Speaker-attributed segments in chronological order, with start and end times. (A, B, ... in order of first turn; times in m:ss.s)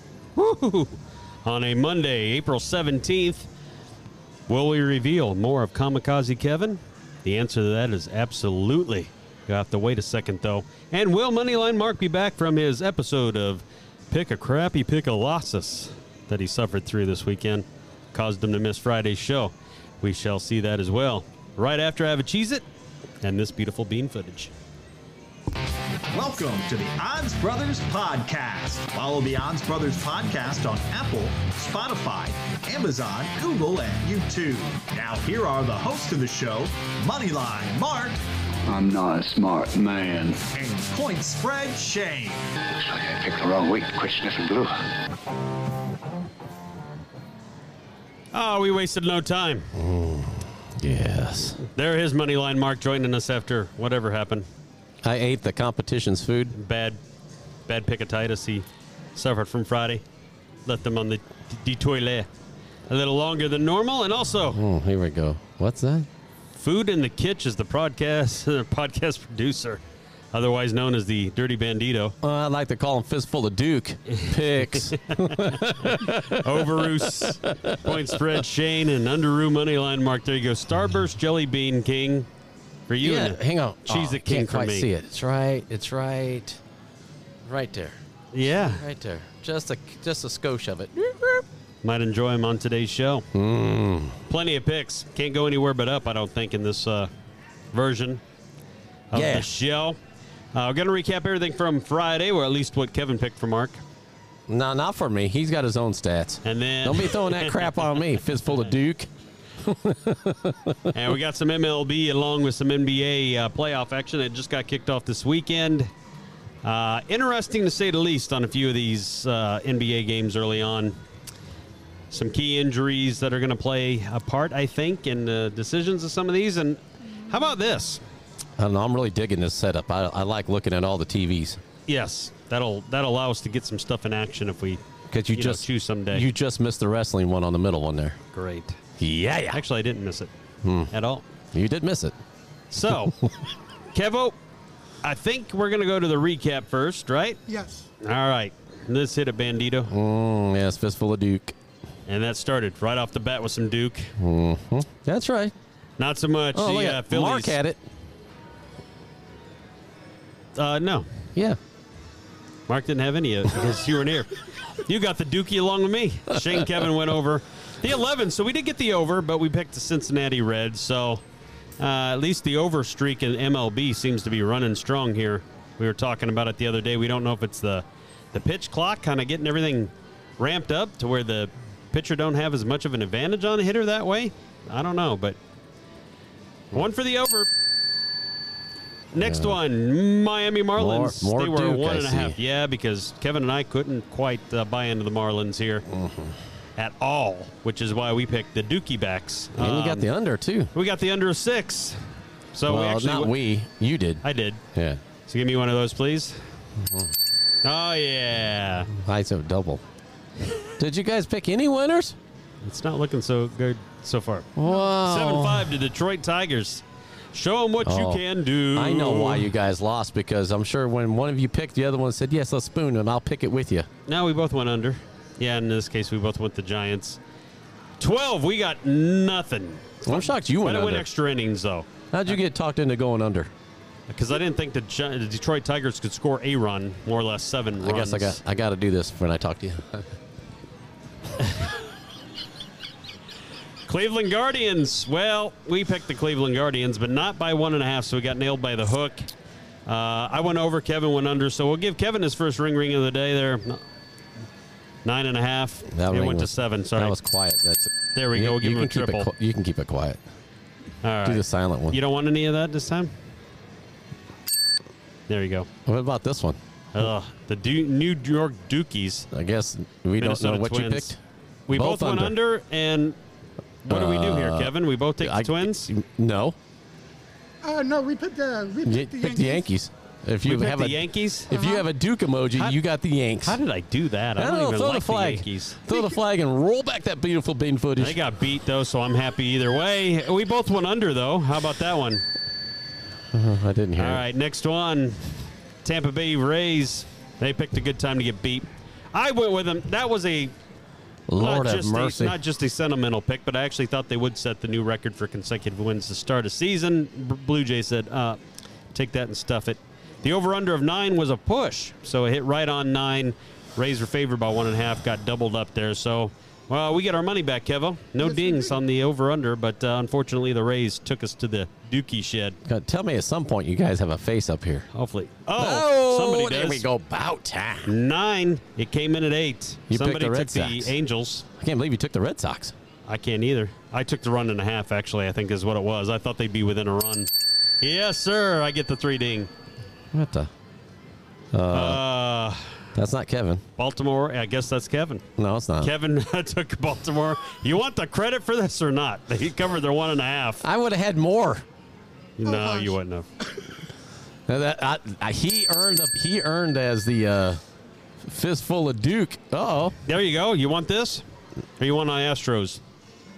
0:00.4-0:03.5 A
0:04.5-0:22.6 A
0:23.2-0:24.5 A
0:26.1-0:38.2 B
0:38.7-0:40.4 C
0:40.5-0:42.4 B
0:42.8-0:44.7 C
0:48.3-0:49.7 A
0:49.7-0:51.6 D
0:51.7-0:54.5 A
0:55.0-0:56.5 D
0:56.5-0:57.0 A
0:57.7-1:00.0 A
1:00.6-1:02.3 A
1:02.9-1:04.6 A
1:04.5-1:06.1 D
1:06.6-1:09.8 A
1:10.3-1:12.2 A
1:12.2-1:18.3 D
1:14.1-1:22.3 A
1:22.9-1:24.9 A
1:23.0-1:26.6 D
1:27.4-1:31.4 D
1:28.3-1:28.8 A
1:31.8-1:33.2 A
1:33.3-1:34.2 D
1:34.3-1:37.1 A
1:37.7-1:38.2 A
1:39.1-1:40.0 A
1:39.1-1:39.5 D
1:40.5-1:43.8 A
1:44.5-1:49.1 D
1:46.4-1:48.1 A
1:49.6-1:50.9 D
1:50.9-1:55.9 A
1:56.6-2:01.0 A
2:02.1-2:08.0 A
2:08.6-2:11.6 D
2:11.9-2:14.8 A
2:15.1-2:18.2 D
2:15.3-2:16.2 A
2:18.3-2:18.8 A
2:19.0-2:19.6 D
2:19.5-2:20.3 A
2:20.6-2:20.9 D
2:20.9-2:21.2 A
2:21.5-2:22.2 D
2:22.7-2:23.2 A
2:23.9-2:24.3 A
2:25.0-2:27.4 A
2:27.5-2:27.9 E
2:28.0-2:29.9 A
2:29.9-2:31.6 D
2:32.1-2:34.1 A
2:34.2-2:35.5 D
2:36.0-2:37.6 A
2:36.5-2:37.8 D
2:40.6-2:41.0 A
2:42.7-2:44.3 A
2:44.8-2:51.2 A
2:51.8-3:05.4 A
3:06.7-3:07.5 A
3:09.1-3:15.8 A
3:09.2-3:09.6 D
3:10.8-3:12.4 D
3:15.8-3:16.4 D
3:16.8-3:20.1 A
3:19.6-3:20.7 D
3:20.7-3:22.0 A
3:22.5-3:23.4 A
3:22.7-3:25.0 D
3:24.2-3:24.6 A
3:25.3-3:26.4 A
3:26.8-3:27.1 D
3:27.6-3:28.9 A
3:28.9-3:29.8 D
3:30.8-3:32.2 D
3:32.6-3:36.8 A
3:34.6-3:35.8 D
3:37.3-3:39.5 A
3:37.8-3:43.9 D
3:44.1-3:47.2 A
3:48.0-3:51.9 A
3:50.0-3:51.1 D
3:52.1-3:53.5 D
3:54.1-3:58.4 A
3:57.8-4:00.0 D
4:03.9-4:09.3 A
4:09.9-4:13.8 A
4:15.0-4:17.2 A
4:15.9-4:20.2 D
4:18.1-4:19.3 A
4:21.0-4:23.1 A
4:21.2-4:22.0 D
4:25.3-4:25.7 A
4:25.8-4:26.6 D
4:26.9-4:29.3 A
4:29.3-4:31.2 D
4:30.2-4:31.1 A
4:31.7-4:33.2 A
4:31.7-4:32.3 D
4:33.8-4:35.9 A
4:33.9-4:36.6 D
4:37.6-4:39.7 E
4:38.8-4:43.6 D
4:40.4-4:41.5 A
4:41.5-4:41.9 E
4:43.4-4:45.8 A
4:44.4-4:48.2 D
4:45.9-4:46.2 E
4:48.0-4:52.2 A
4:53.3-4:54.2 D
4:54.0-4:55.2 A
4:55.8-5:00.5 A
5:01.3-5:02.4 D
5:01.4-5:08.4 A
5:08.9-5:22.6 A
5:18.2-5:18.8 E
5:22.6-5:24.9 D
5:24.9-5:26.8 A
5:25.6-5:27.9 D
5:27.8-5:31.4 A
5:29.9-5:31.0 D
5:31.5-5:32.7 D
5:33.1-5:37.3 A
5:37.8-5:39.5 A
5:40.1-5:40.5 D
5:41.5-5:42.0 D
5:41.7-5:42.7 A
5:42.9-5:43.6 D
5:43.8-5:45.2 A
5:45.4-5:45.9 D
5:45.8-5:50.6 A
5:50.6-5:51.6 D
5:52.4-5:53.3 A
5:52.4-5:52.9 E
5:54.5-5:57.6 D
5:58.2-6:00.0 D
6:00.1-6:01.2 A
6:01.8-6:02.8 A